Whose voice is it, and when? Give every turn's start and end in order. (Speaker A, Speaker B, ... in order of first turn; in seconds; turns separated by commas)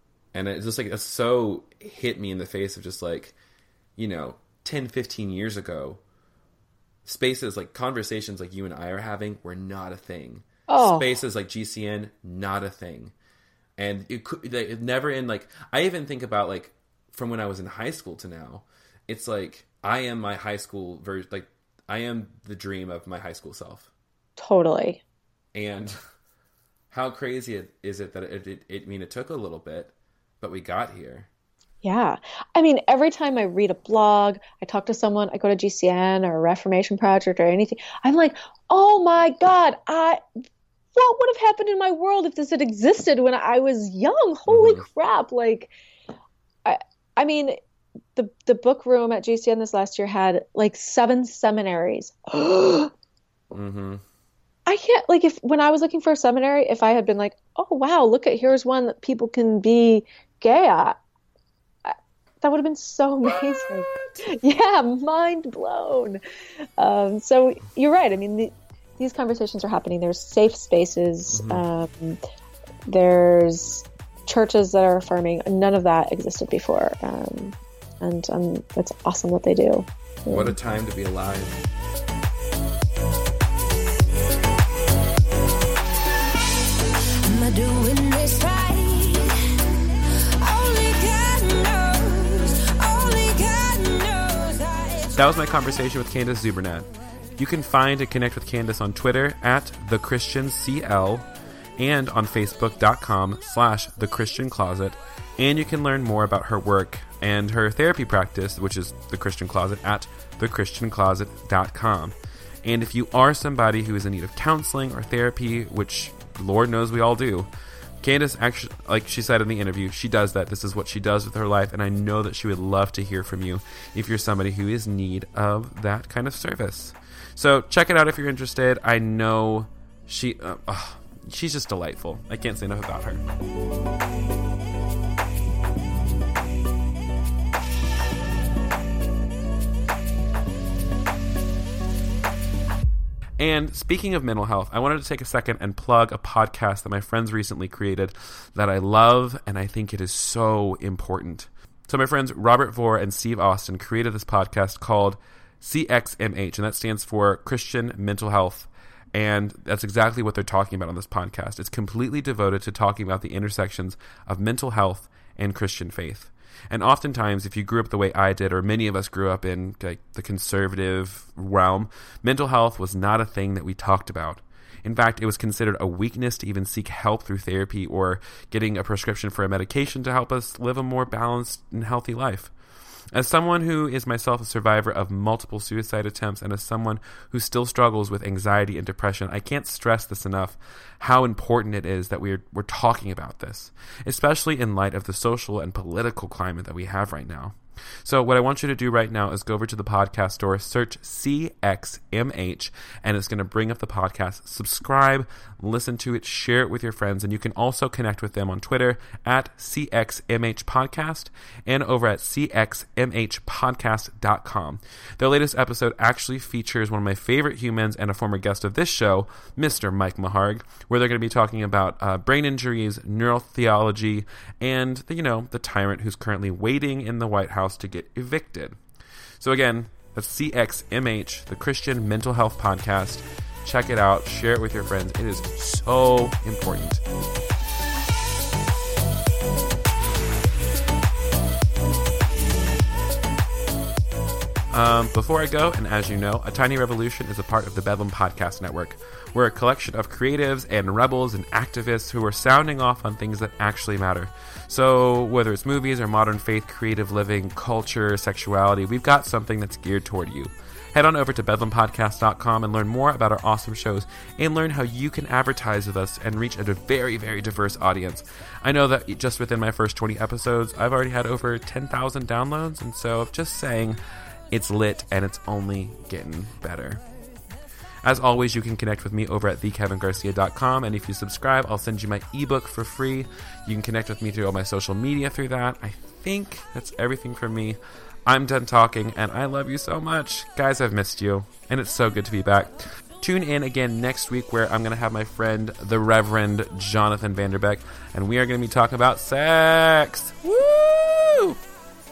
Speaker A: 0.3-3.4, Speaker A: 4.0-6.0, Speaker A: 7.0-13.1, Speaker B: 10.7-11.1, Speaker A: 13.8-23.9, Speaker B: 24.4-25.0, Speaker A: 25.5-25.9, Speaker A: 26.9-31.3, Speaker B: 31.8-40.2, Speaker B: 40.9-45.7, Speaker A: 44.5-44.9, Speaker B: 46.6-47.6, Speaker B: 48.1-52.9, Speaker A: 53.5-54.0, Speaker B: 54.6-60.9, Speaker B: 61.8-66.2, Speaker A: 63.2-64.2, Speaker B: 66.8-72.2, Speaker A: 71.3-71.6, Speaker B: 72.9-80.5, Speaker A: 80.3-81.6, Speaker C: 87.2-89.4, Speaker C: 90.4-95.2, Speaker A: 95.1-101.3, Speaker A: 101.8-117.5, Speaker A: 118.0-133.2, Speaker A: 143.4-182.5, Speaker A: 183.1-228.8, Speaker A: 229.4-237.0, Speaker A: 244.7-274.0, Speaker A: 274.5-277.0, Speaker A: 278.0-301.6